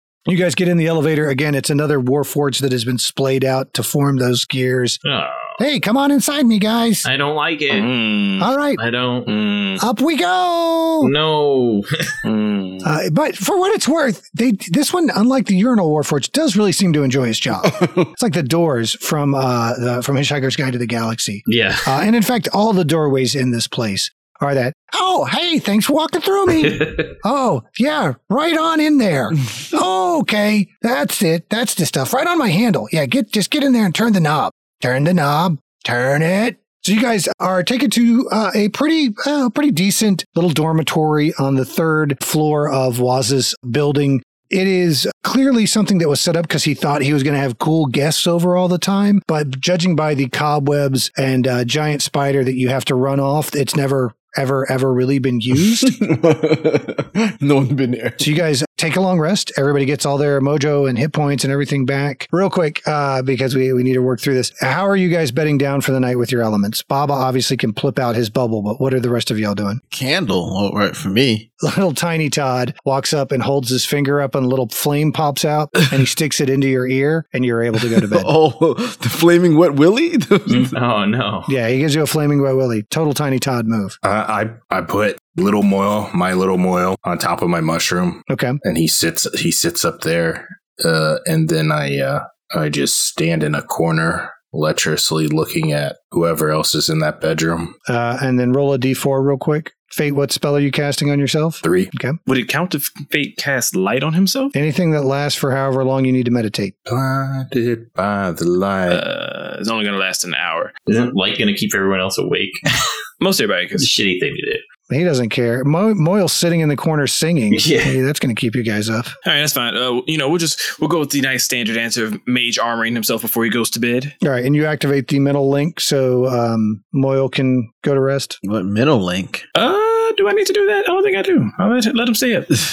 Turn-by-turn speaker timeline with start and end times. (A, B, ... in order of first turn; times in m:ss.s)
0:00.2-0:05.0 A
0:05.0-0:05.6 B
0:05.6-0:07.0 A
0:07.0-0:07.9 B
0:07.7-0:08.5 C
0:08.4-0:08.8 A
0:08.8-0:09.3 B
0:09.3-0:09.8 C
0:09.8-0:11.1 A
0:11.0-0:12.1 B
0:12.2-0:12.8 C
0:12.8-0:56.0 A
0:17.6-0:18.1 D
0:21.5-0:21.9 B
0:26.6-0:27.1 B
0:55.8-0:58.3 D
0:58.2-1:09.8 A
1:09.9-1:11.4 D
1:11.6-1:18.3 A
1:18.0-1:20.7 D
1:20.5-1:21.5 B
1:21.5-1:24.0 A
1:24.0-1:37.7 E
1:28.3-1:28.6 A
1:37.9-1:42.2 A
1:41.6-1:41.9 E
1:42.2-1:44.5 C
1:44.5-1:46.7 A
1:46.9-1:49.0 E
1:48.9-1:50.7 C
1:50.9-1:52.6 B
1:53.2-1:53.9 C
1:53.8-1:54.6 B
1:54.9-1:59.1 A
1:57.5-1:58.0 B
1:59.2-2:04.1 C
2:04.2-2:08.4 A
2:08.4-2:09.4 D
2:09.5-2:12.5 C